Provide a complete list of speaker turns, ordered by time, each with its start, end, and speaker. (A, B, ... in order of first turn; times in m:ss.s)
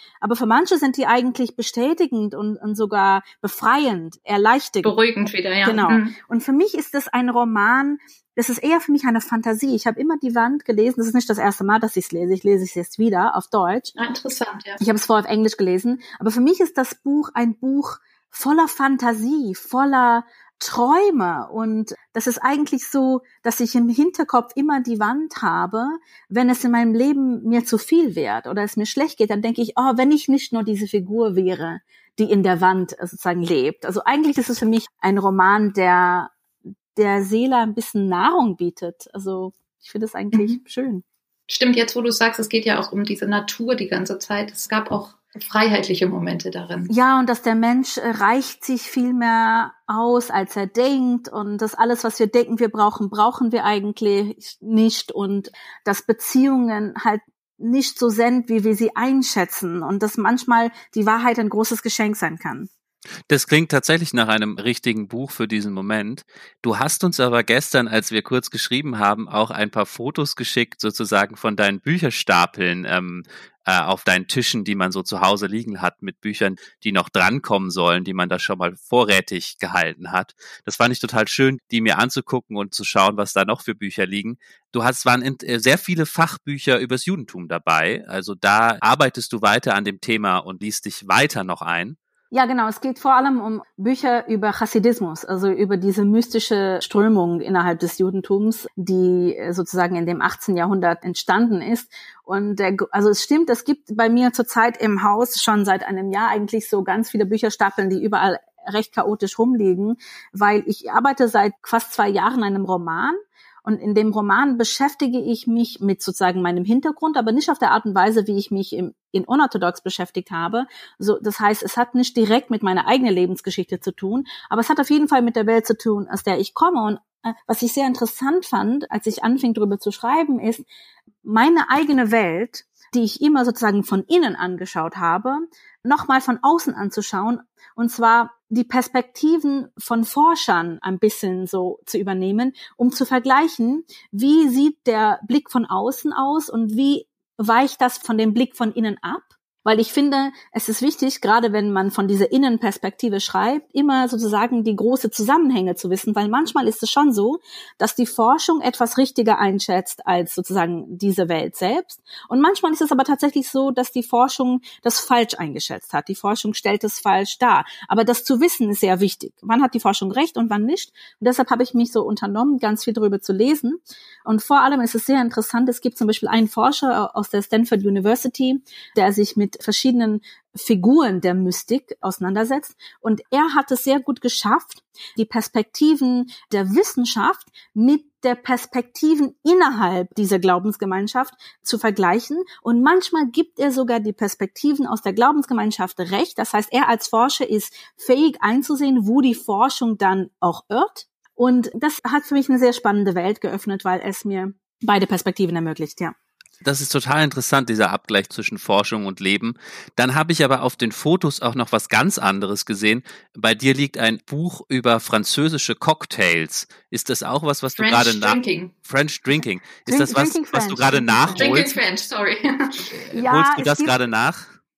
0:00.2-0:04.9 A
0:04.8-0:06.1 B
0:05.6-0:13.9 A
0:14.0-0:14.8 B
0:14.8-0:36.3 A
0:36.9-0:41.0 A
0:41.5-0:46.9 B
0:46.9-1:02.7 A
1:03.3-1:32.0 C
1:32.3-2:10.6 A
2:11.2-3:26.1 A
3:26.6-3:41.8 C
3:37.8-3:38.7 B
3:39.9-3:41.5 A
3:41.4-3:42.8 B
3:43.0-3:44.5 C
3:43.1-3:43.9 A